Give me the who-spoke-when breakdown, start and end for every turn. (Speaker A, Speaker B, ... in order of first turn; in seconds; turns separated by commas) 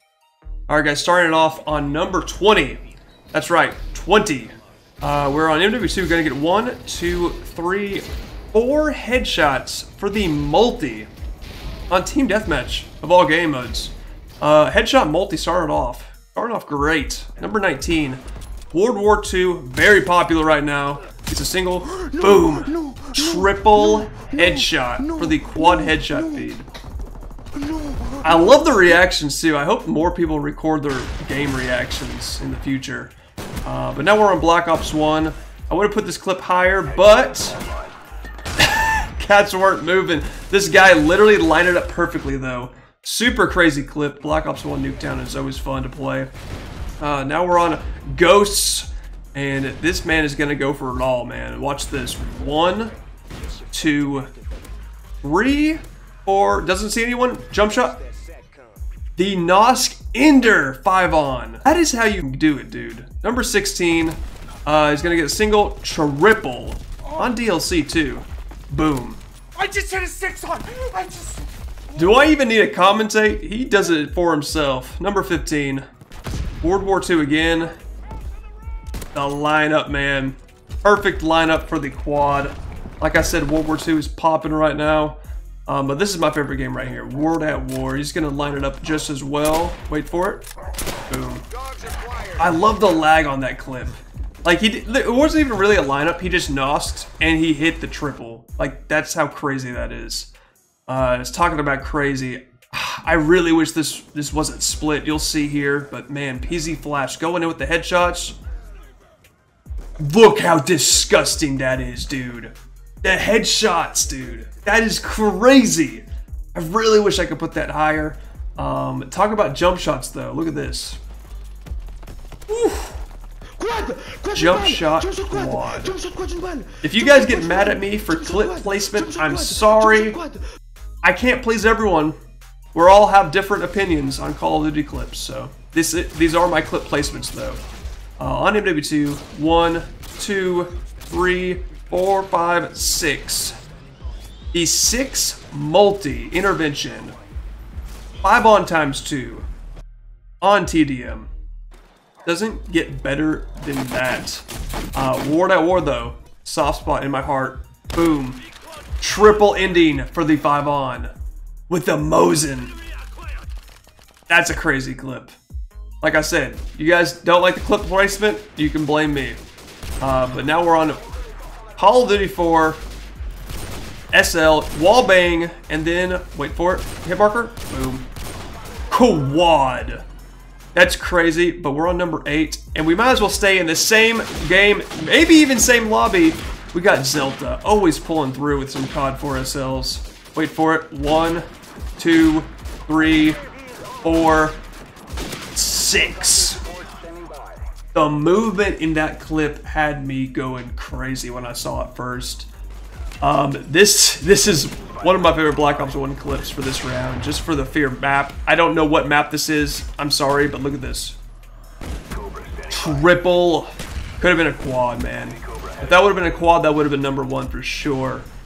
Speaker A: 0.7-2.8, Speaker A: 3.3-11.1, Speaker A: 11.9-26.7, Speaker A: 28.2-37.6, Speaker A: 38.6-46.3, Speaker A: 47.0-52.9, Speaker A: 53.7-54.3, Speaker A: 55.2-58.1, Speaker A: 59.2-69.2, Speaker B: 69.5-71.5, Speaker A: 71.9-75.8, Speaker A: 76.6-77.7, Speaker A: 79.1-90.5, Speaker A: 91.1-91.5, Speaker A: 92.4-100.3, Speaker A: 100.9-108.4, Speaker A: 110.0-121.0, Speaker A: 122.5-123.0, Speaker B: 123.6-124.3, Speaker A: 124.3-126.0, Speaker B: 125.9-126.8, Speaker A: 126.8-130.2, Speaker A: 131.0-132.2, Speaker A: 132.7-137.6, Speaker A: 138.2-143.6, Speaker A: 144.5-147.2, Speaker A: 148.2-149.5, Speaker A: 150.4-151.3, Speaker A: 152.2-158.4, Speaker A: 159.0-161.1, Speaker A: 161.7-162.8, Speaker A: 164.3-165.3, Speaker A: 166.0-169.4, Speaker A: 170.0-171.0, Speaker A: 171.8-172.8, Speaker A: 174.1-178.1, Speaker A: 178.9-180.0, Speaker A: 180.7-193.4, Speaker A: 194.0-194.6, Speaker A: 195.5-196.6, Speaker B: 197.1-197.4, Speaker A: 197.9-202.5, Speaker A: 203.2-211.2, Speaker A: 212.6-218.3